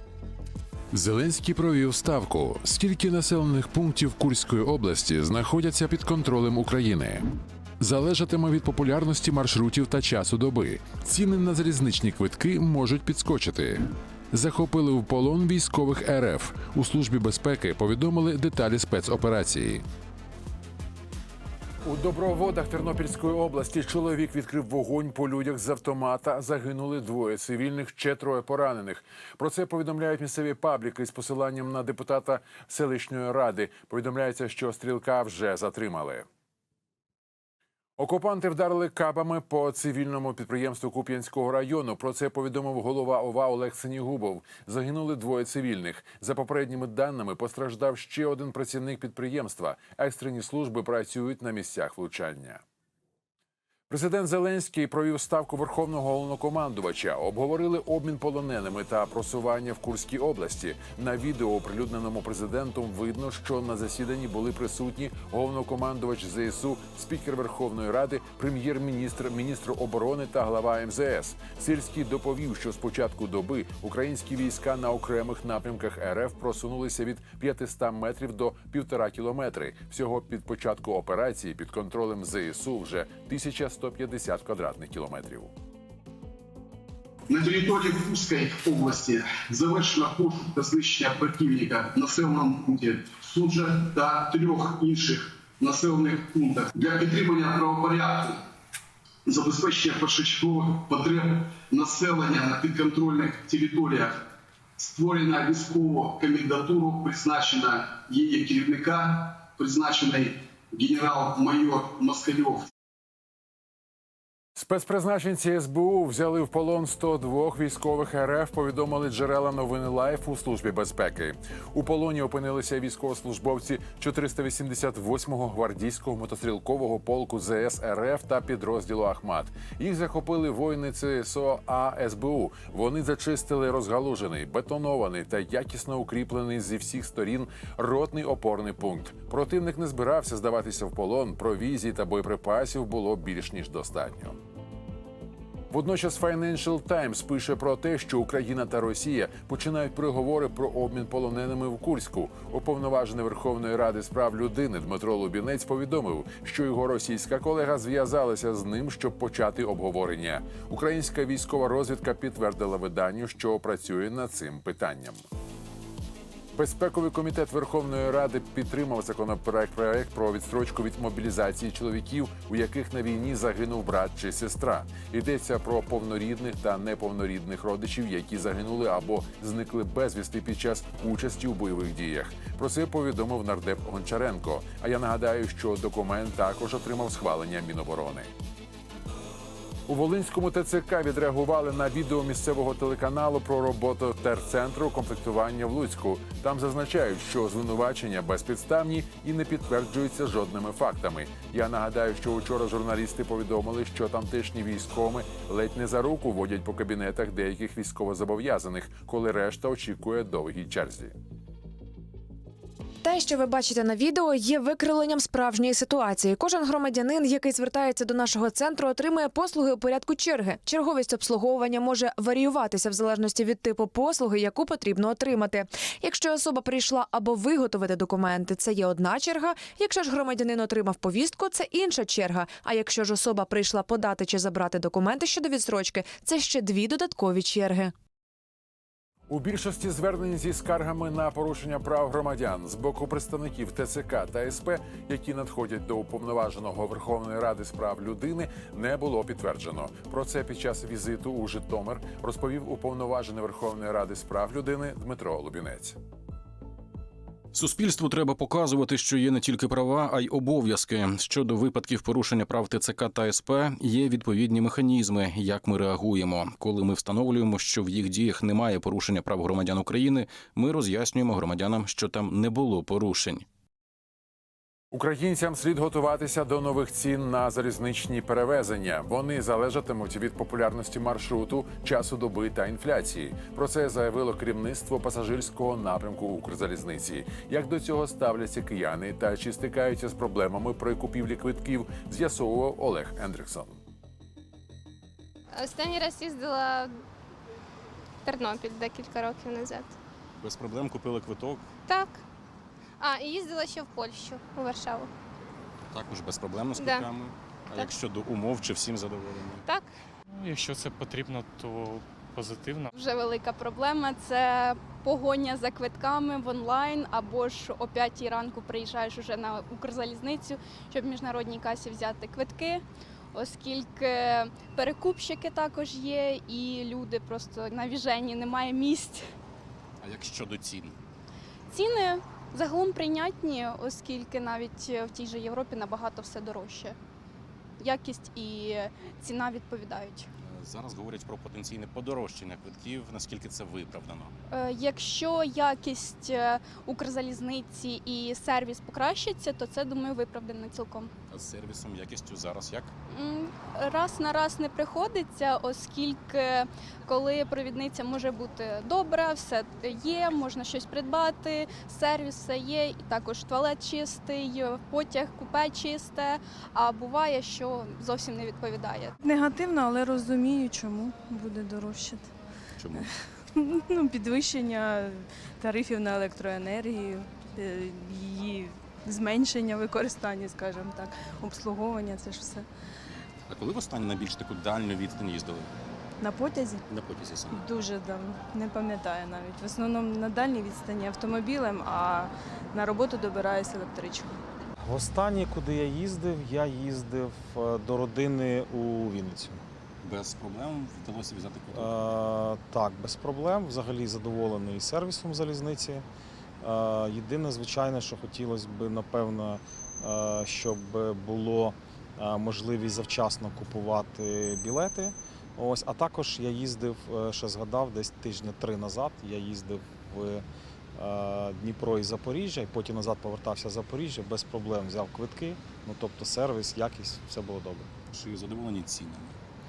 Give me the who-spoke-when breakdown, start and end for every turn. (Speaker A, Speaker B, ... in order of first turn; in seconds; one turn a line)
Speaker A: 0.9-7.2
Speaker A: 7.8-19.8
Speaker A: 21.8-36.2
Speaker A: 38.0-52.6
Speaker A: 53.9-85.5
Speaker B: 87.3-98.4
Speaker B: 99.3-104.2
Speaker B: 104.8-112.7
Speaker A: 114.6-144.4
Speaker A: 145.7-165.2
Speaker A: 166.5-188.3
Speaker A: 189.9-211.1
Speaker C: 213.0-237.9
Speaker A: 239.3-256.0
Speaker D: 257.5-273.4
Speaker A: 274.9-293.8
Speaker E: 295.5-296.9
Speaker E: 298.3-299.9
Speaker D: 300.4-301.7
Speaker E: 301.9-302.2
Speaker E: 303.0-305.1
Speaker D: 305.9-309.6
Speaker F: 310.3-312.9
Speaker G: 312.9-322.8
Speaker G: 323.3-329.2
Speaker D: 330.0-331.0
Speaker G: 331.7-337.0
Speaker G: 337.8-340.3
Speaker D: 340.4-344.3
Speaker G: 344.5-351.1
Speaker D: 351.3-352.9
Speaker G: 353.1-369.1
Speaker H: 369.2-372.3
Speaker D: 372.8-373.1
Speaker H: 373.0-382.7
Speaker D: 383.5-385.7
Speaker H: 386.2-386.8
Speaker D: 386.9-387.7
Speaker H: 387.5-394.3
Speaker I: 394.8-399.6
Speaker D: 400.0-401.9
Speaker I: 401.7-406.1
Speaker I: 406.6-420.4
Speaker I: 421.0-427.9
Speaker D: 428.1-429.4